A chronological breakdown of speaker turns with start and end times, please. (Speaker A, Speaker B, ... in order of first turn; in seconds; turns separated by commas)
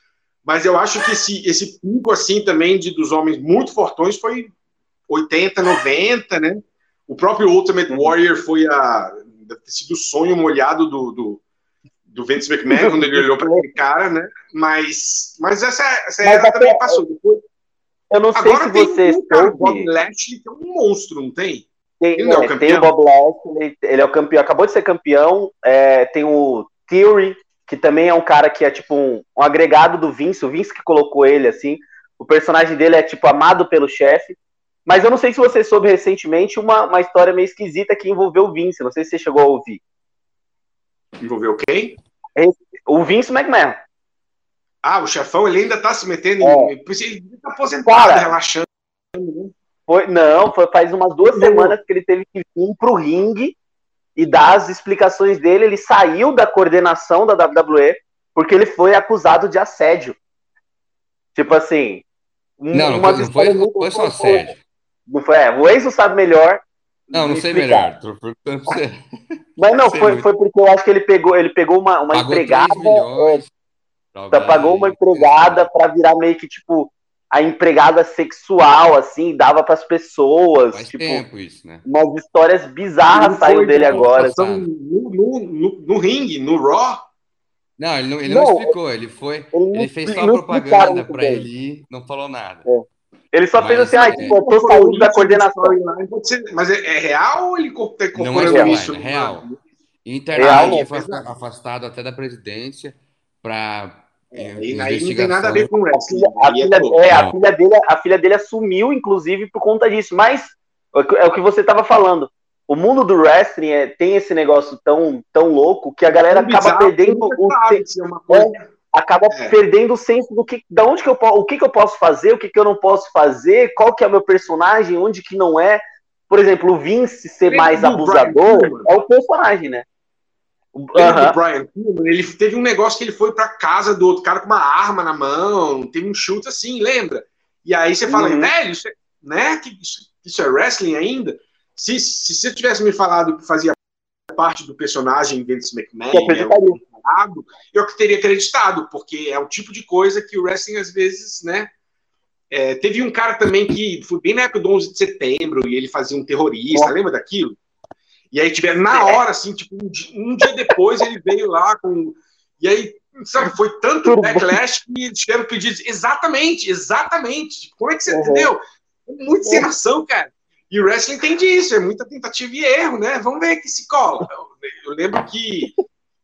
Speaker A: 0.4-4.5, Speaker A: 5.1-11.4, Speaker A: 12.1-17.4, Speaker B: 12.7-13.7, Speaker B: 16.2-17.0, Speaker B: 18.1-19.9, Speaker A: 18.3-22.9, Speaker B: 22.0-39.8, Speaker A: 41.2-41.9, Speaker B: 42.4-43.8, Speaker A: 44.8-49.5, Speaker B: 46.4-46.7, Speaker B: 47.9-48.3, Speaker B: 49.9-53.5, Speaker A: 51.2-51.8, Speaker B: 54.1-60.1, Speaker B: 61.3-62.0, Speaker B: 62.6-64.5, Speaker C: 62.7-64.6, Speaker B: 65.1-67.9, Speaker C: 67.1-69.0, Speaker B: 69.6-73.4, Speaker C: 69.7-70.2, Speaker C: 72.1-73.5, Speaker C: 74.1-75.7, Speaker B: 74.3-81.2, Speaker C: 80.7-81.8, Speaker B: 81.8-84.3, Speaker A: 83.1-87.0, Speaker C: 83.9-84.7, Speaker C: 87.8-92.7, Speaker B: 88.2-88.7, Speaker B: 89.5-91.5, Speaker B: 92.7-95.8, Speaker C: 93.5-94.3, Speaker A: 94.0-99.6, Speaker C: 98.1-99.5, Speaker B: 98.5-98.7, Speaker C: 100.0-105.7, Speaker B: 100.3-100.9, Speaker A: 100.4-101.2, Speaker A: 104.3-107.0, Speaker B: 105.9-129.8, Speaker C: 107.1-107.3, Speaker A: 116.1-118.7, Speaker A: 127.5-128.9, Speaker B: 130.8-131.4, Speaker A: 130.9-143.8, Speaker B: 138.1-138.5, Speaker A: 144.3-151.7, Speaker B: 146.1-146.8, Speaker A: 152.5-157.6, Speaker A: 158.3-175.7, Speaker B: 158.9-159.2, Speaker B: 164.0-164.6, Speaker B: 168.1-168.5